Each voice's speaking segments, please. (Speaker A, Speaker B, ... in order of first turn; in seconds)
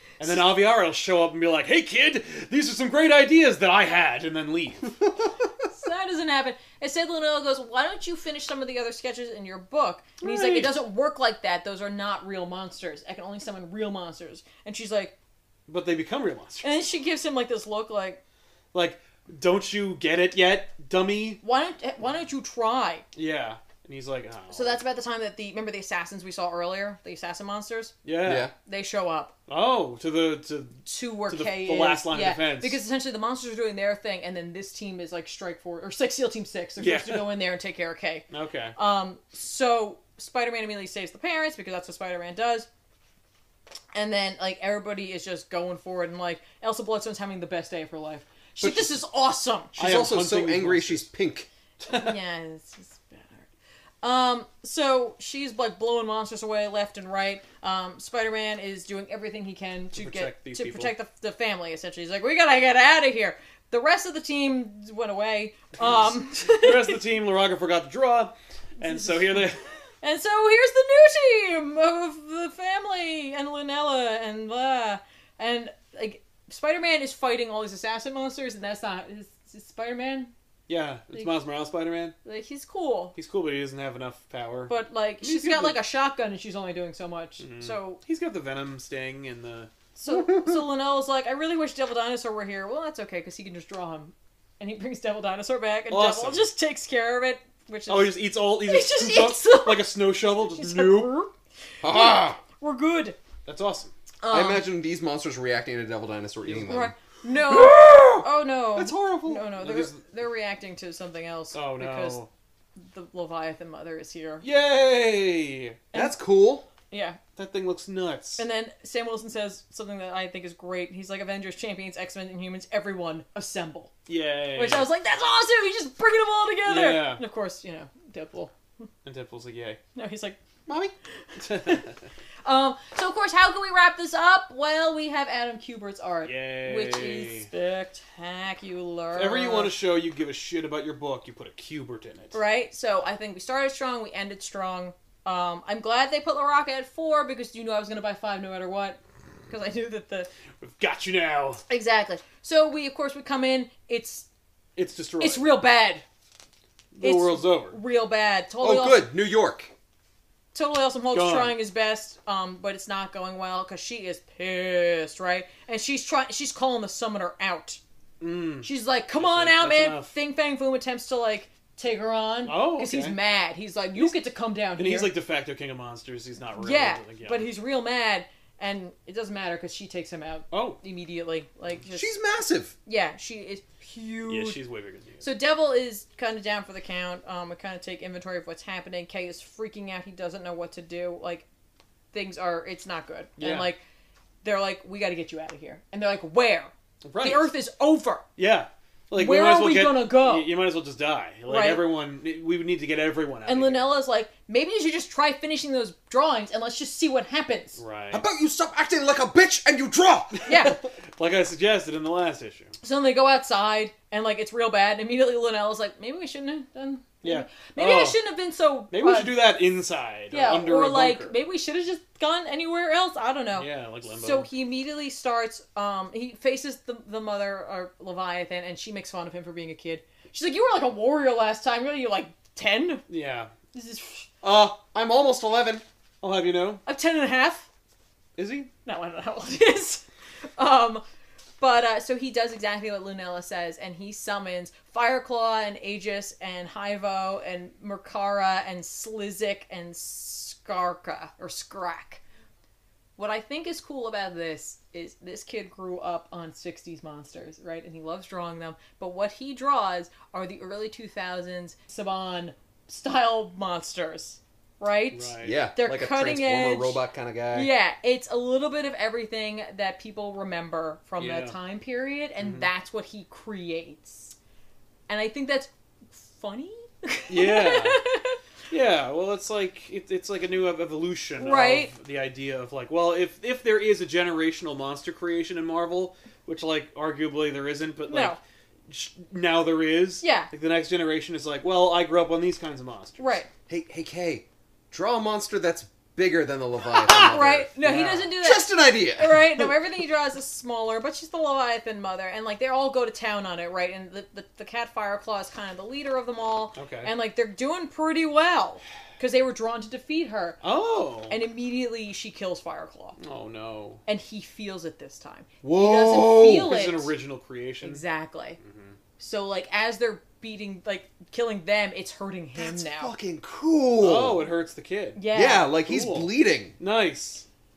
Speaker A: 0.2-5.0, 10.2-10.8, 15.7-16.7, 18.7-21.4, 23.1-24.8, 28.1-28.5, 29.5-32.8, 36.8-37.4, 38.3-38.8, 49.8-51.1, 51.8-52.1, 59.9-60.9, 66.4-69.6, 80.7-82.2, 83.2-85.8, 87.4-89.7, 95.9-96.5, 97.9-101.2, 103.5-103.9, 106.5-106.8, 109.5-110.0, 111.5-112.3, 114.4-115.8, 117.4-118.4, 124.1-124.9, 126.7-127.2, 129.1-129.8, 131.4-132.0, 136.2-137.5, 139.2-142.4, 150.6-151.6, 154.8-155.5, 156.9-157.8, 161.1-161.6, 168.2-170.1, 172.5-173.2, 174.8-177.5, 180.5-180.8, 184.3-185.3, 193.4-193.7, 197.0-197.5, 198.4-203.9, 207.8-208.3, 210.4-212.7, 217.2-218.2, 218.9-221.4, 223.6-224.5, 233.1-233.5, 236.2-236.8, 238.4-238.7, 265.1-265.6, 271.2-271.6, 272.4-272.7, 277.3-278.1, 278.7-293.4, 297.8-298.3, 306.8-307.1, 310.6-311.4, 313.2-314.0, 316.5-318.0, 318.6-319.0, 324.0-327.4
Speaker B: 5.7-15.2, 16.6-18.2, 21.4-23.1, 24.5-27.9, 28.6-29.3, 30.9-42.7, 43.9-49.8, 51.9-53.5, 54.0-67.0, 68.8-69.5, 70.0-80.3, 82.2-83.2, 84.7-88.0, 90.0-99.9, 100.5-101.3, 101.8-103.2, 104.2-104.7, 106.7-112.2, 112.8-114.5, 115.9-116.2, 116.9-117.2, 118.4-123.9, 124.5-128.5, 129.9-130.4, 131.3-131.9, 132.4-139.7, 142.3-150.3, 151.7-154.3, 155.2-156.1, 157.0-159.1, 160.5-167.8, 168.6-175.1, 176.6-182.2, 182.9-184.6, 185.2-191.5, 192.1-193.8, 194.4-198.2, 199.2-200.5, 201.5-201.8, 203.5-207.8, 210.5-210.8, 212.8-219.3, 220.3-233.0, 233.7-234.3, 236.8-237.7, 238.8-240.0, 240.6-241.0, 241.6-252.2, 253.2-267.0, 267.5-274.4, 275.1-278.4, 281.4-281.9, 288.1-288.4, 290.2-290.5, 293.2-293.5, 296.9-310.6, 311.3-313.2, 314.1-317.1, 317.8-318.6, 319.2-323.1, 325.2-325.7
Speaker C: 28.2-28.5, 48.6-49.0, 49.8-51.5, 101.8-102.4, 104.3-106.9, 107.5-108.2, 108.8-109.5, 115.9-116.7, 130.7-130.9, 158.6-159.7, 181.9-182.7, 208.1-210.4, 234.4-235.8, 265.4-267.7, 293.7-297.8, 298.4-299.5, 315.6-316.7, 322.6-324.5, 325.3-326.8